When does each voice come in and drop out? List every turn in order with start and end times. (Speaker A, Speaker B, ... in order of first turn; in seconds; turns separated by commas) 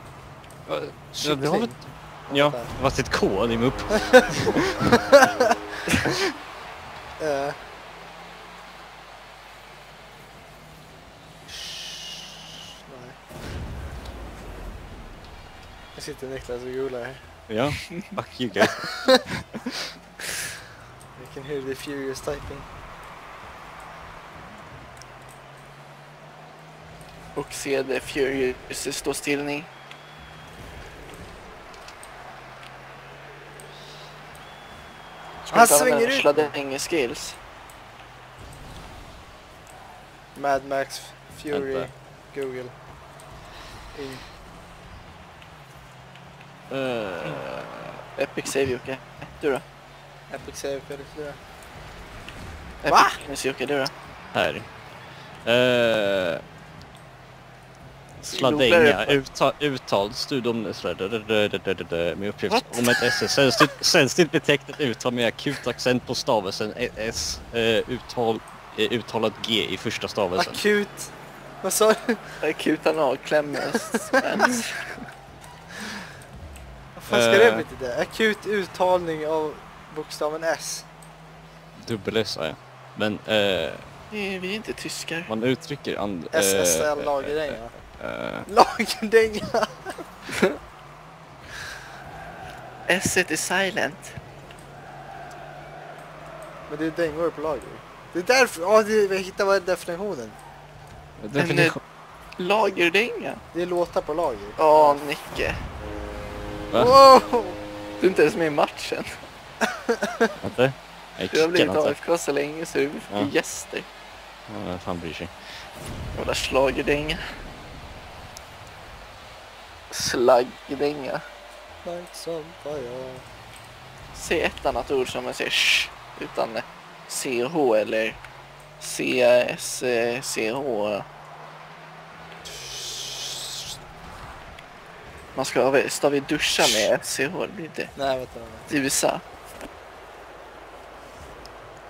Speaker A: 0.7-4.7, Speaker B: 1.2-1.8, Speaker B: 2.3-2.7, Speaker B: 7.2-7.6, Speaker B: 11.5-12.3, Speaker B: 12.9-13.2, Speaker B: 15.9-17.2, Speaker A: 17.5-19.3, Speaker B: 21.1-22.6, Speaker C: 27.3-29.7, Speaker C: 35.4-37.4, Speaker B: 35.5-36.5, Speaker B: 40.4-42.7, Speaker A: 41.5-41.9, Speaker B: 43.9-44.2, Speaker A: 46.7-47.9, Speaker C: 48.2-49.6, Speaker B: 50.3-51.4, Speaker C: 52.8-53.9, Speaker B: 52.9-53.2, Speaker A: 54.3-54.7, Speaker A: 55.4-56.4, Speaker C: 58.2-59.2, Speaker A: 58.3-70.6, Speaker C: 62.5-63.0, Speaker B: 70.3-72.4, Speaker C: 72.4-75.0, Speaker B: 77.0-80.9, Speaker A: 77.1-77.7, Speaker A: 81.8-83.8, Speaker C: 84.1-85.3, Speaker A: 85.3-88.5, Speaker B: 86.3-87.7, Speaker B: 88.5-90.0, Speaker C: 92.9-94.1, Speaker B: 96.7-100.4, Speaker A: 101.2-101.8, Speaker C: 101.3-101.8, Speaker C: 102.4-103.4, Speaker B: 103.5-105.0, Speaker C: 104.6-105.5, Speaker A: 106.7-107.0, Speaker B: 106.7-107.6, Speaker C: 108.0-109.1, Speaker B: 110.0-110.3, Speaker A: 110.4-112.0, Speaker C: 111.3-113.8, Speaker A: 114.5-115.3, Speaker C: 116.1-117.2, Speaker C: 119.9-121.2, Speaker B: 121.8-123.2, Speaker C: 124.1-128.2, Speaker C: 128.8-131.0, Speaker B: 132.6-133.4, Speaker C: 135.3-137.9, Speaker B: 137.9-138.7, Speaker C: 138.7-139.2